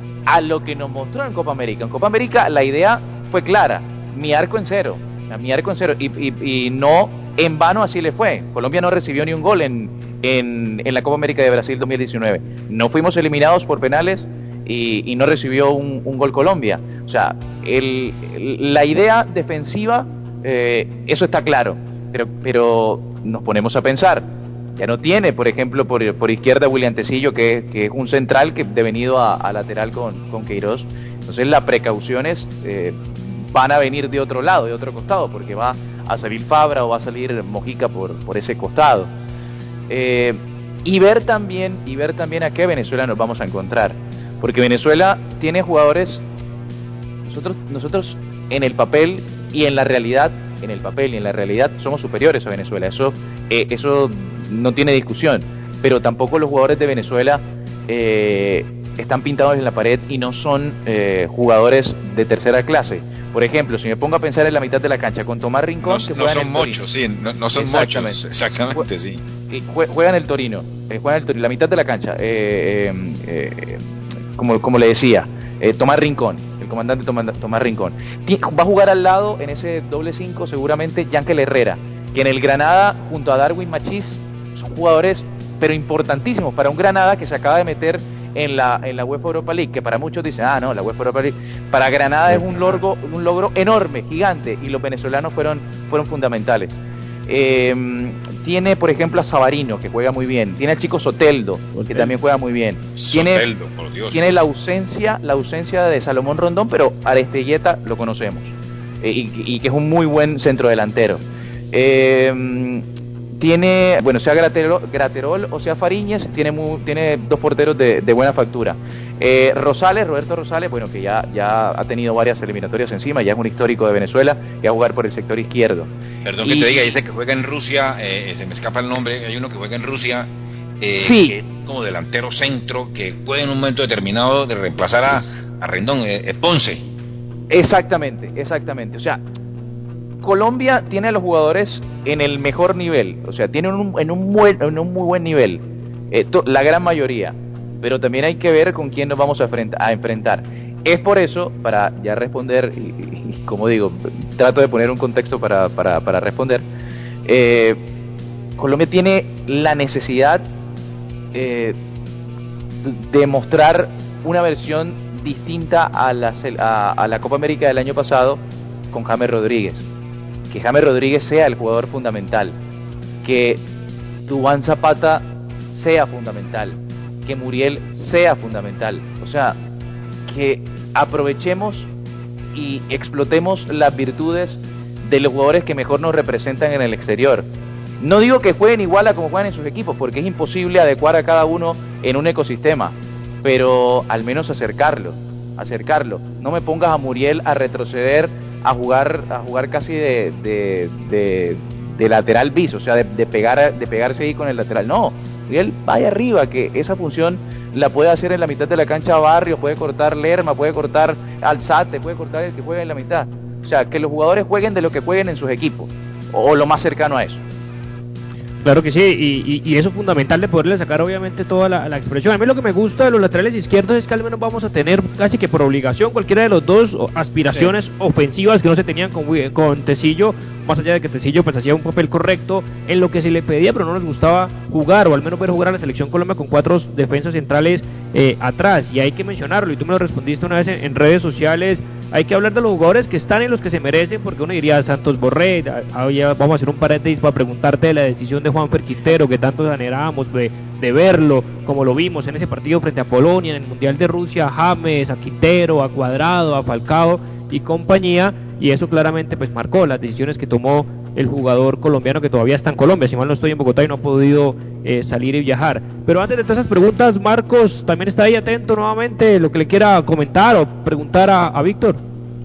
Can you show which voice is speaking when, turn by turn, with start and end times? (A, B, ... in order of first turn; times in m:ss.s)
0:00.3-0:39.1 A
0:39.9-0:46.2 A
0:47.3-1:06.8 A
1:05.8-1:09.2 B
1:07.6-1:08.2 A
1:09.5-1:13.8 A
1:14.4-1:43.5 A
1:32.3-1:32.8 C
1:41.8-1:42.1 C
1:43.0-1:44.5 B
1:44.1-1:52.8 A
1:53.4-2:05.9 A
2:06.2-2:10.3 B
2:06.4-2:06.9 A
2:10.8-2:16.8 B
2:11.0-2:11.4 A
2:17.5-2:19.2 A
2:20.2-2:36.6 A
2:37.3-2:37.8 A
2:38.6-2:40.4 A
2:41.3-2:41.8 A
2:42.8-2:48.4 A
2:48.9-2:49.8 A
2:50.5-2:52.6 A
2:53.2-2:53.6 A
2:54.3-2:59.6 A
3:00.3-3:01.9 A
3:02.5-3:07.5 A
3:08.0-3:37.4 A
3:38.6-4:32.0 C